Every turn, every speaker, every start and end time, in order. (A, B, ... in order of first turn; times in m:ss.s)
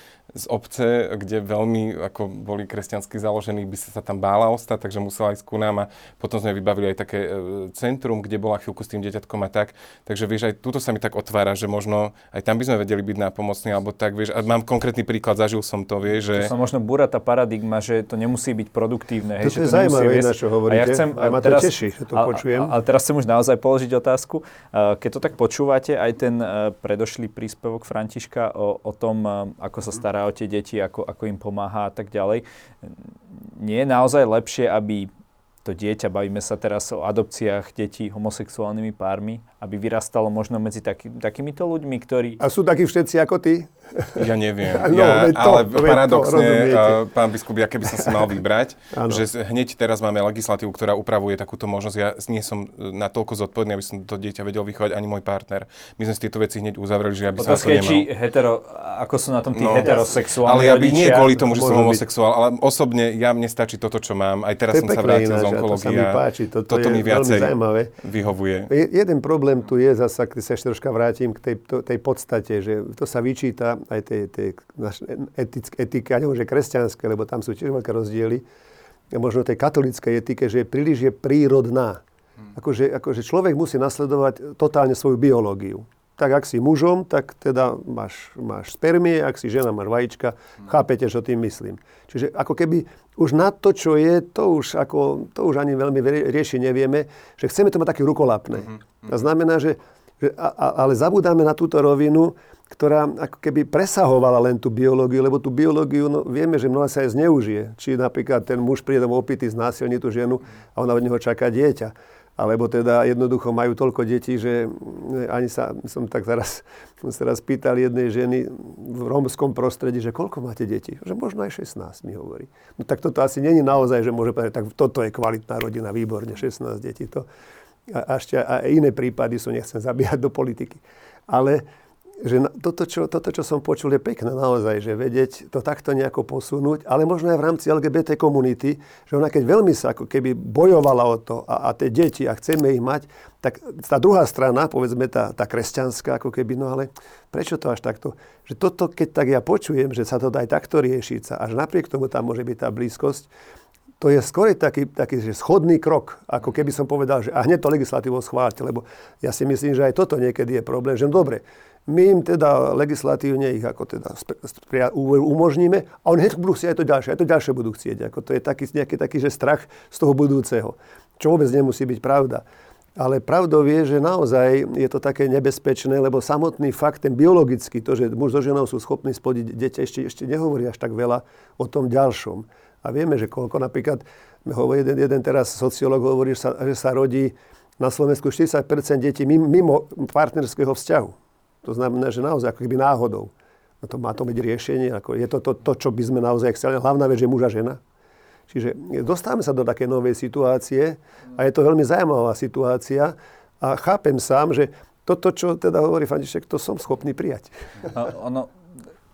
0:00.3-0:16.5 A
0:16.3-0:35.1 B
0:19.4-0:22.8 C
0:35.6-0:42.4 B
0:42.4-0:47.0 C
0:44.2-0:58.1 A
0:47.9-0:48.2 C
0:48.9-0:49.2 C
0:57.4-1:01.4 B
0:59.5-1:08.7 A
1:01.4-1:02.0 C
1:04.7-1:07.9 C
1:08.7-1:18.4 C
1:19.1-1:22.0 C
1:22.5-2:07.2 C
2:07.9-2:11.6 C
2:12.2-2:33.3 C
2:34.0-2:52.4 C
2:53.0-3:17.8 C
3:18.5-3:27.6 C
3:27.9-3:28.5 B